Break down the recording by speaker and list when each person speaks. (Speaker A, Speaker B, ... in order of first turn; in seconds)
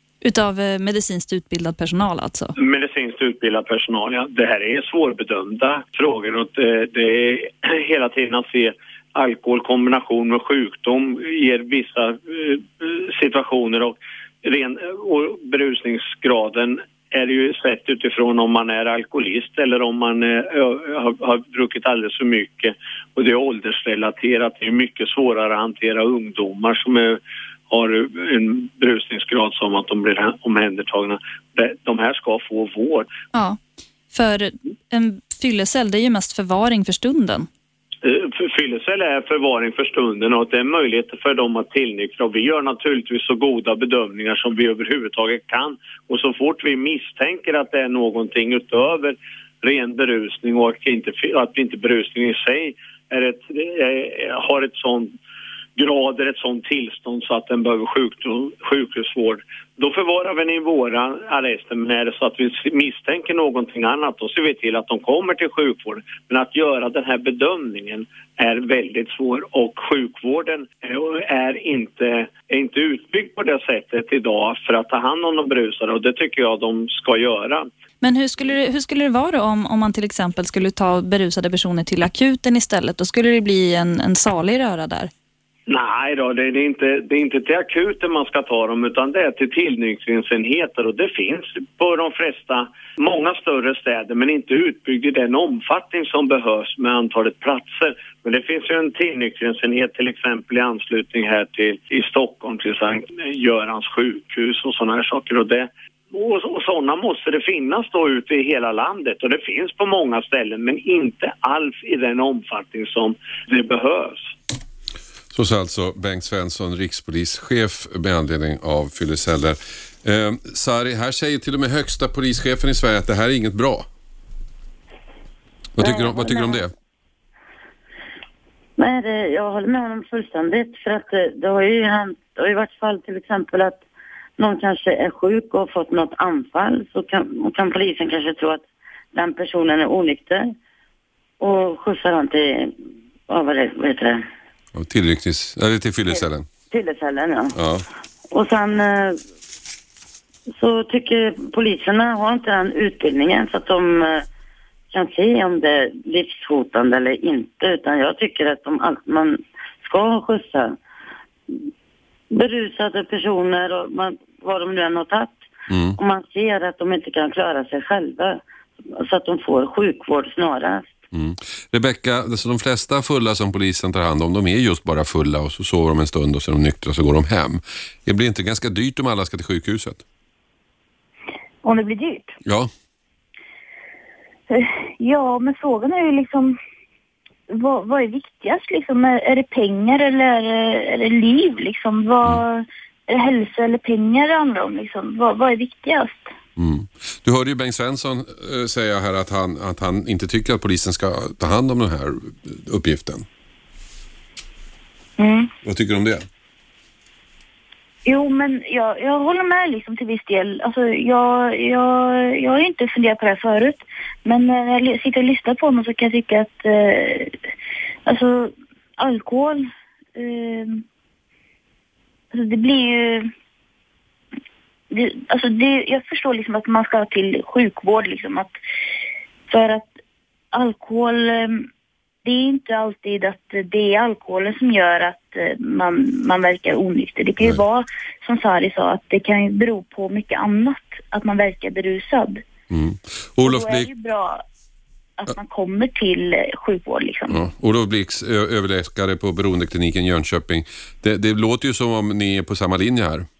Speaker A: 0.2-2.5, 33.3-33.6, 34.1-37.5, 78.0-85.1
Speaker B: 2.6-33.1, 38.0-55.1, 55.8-77.7, 85.7-114.3
Speaker C: 115.3-123.9, 125.8-126.7, 144.7-146.4, 147.5-147.8, 165.7-166.0, 171.1-180.0, 182.4-182.7, 196.6-203.2, 205.6-206.2, 242.7-243.9, 247.3-253.3
Speaker D: 125.8-126.6, 128.8-133.8, 134.4-140.5, 141.4-142.7, 143.3-144.2, 146.1-147.6, 148.3-149.2, 150.5-154.2, 154.9-160.8, 162.3-165.4, 166.0-170.9
Speaker E: 181.6-182.4, 184.5-186.6, 187.5-196.3, 205.2-205.5, 208.1-217.3, 218.1-220.8, 222.3-223.3, 224.9-228.5, 229.5-229.9, 230.5-231.7, 232.2-242.4, 243.4-244.4, 245.2-247.4